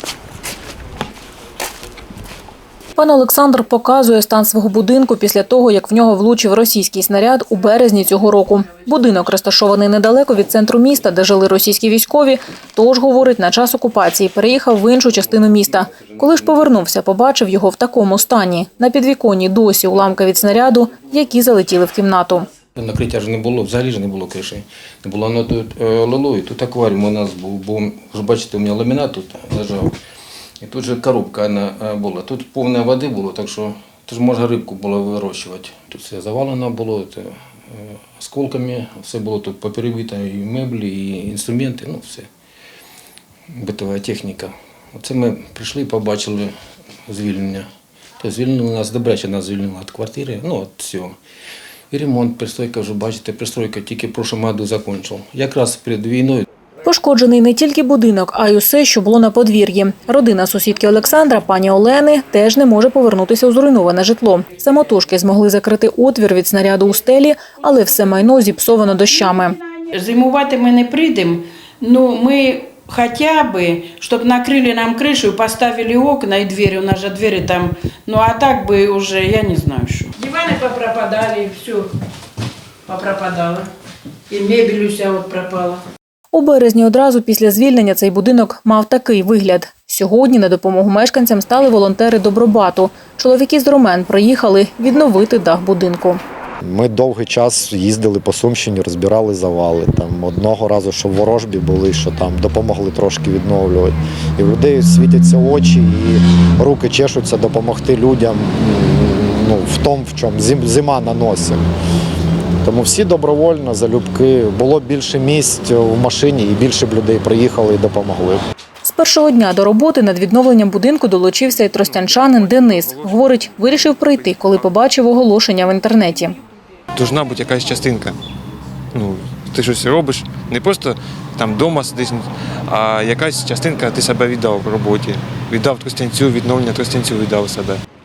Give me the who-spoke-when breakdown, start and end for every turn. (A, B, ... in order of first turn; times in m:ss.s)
0:02.9-0:22.5 A
0:22.8-0:29.9 B
0:30.6-0:42.3 B
0:43.5-0:46.5 B
0:47.1-0:47.6 B
0:48.2-0:51.2 B
0:51.9-0:56.4 B
0:56.8-1:09.6 A
1:09.9-1:21.9 C
1:22.9-1:23.7 C
1:24.3-1:25.8 C
1:26.3-1:36.2 A
1:36.6-1:51.6 D
1:52.6-1:58.4 D
1:58.8-2:06.4 A
2:02.0-2:04.6 E
2:06.9-2:08.2 E
2:08.9-2:17.8 E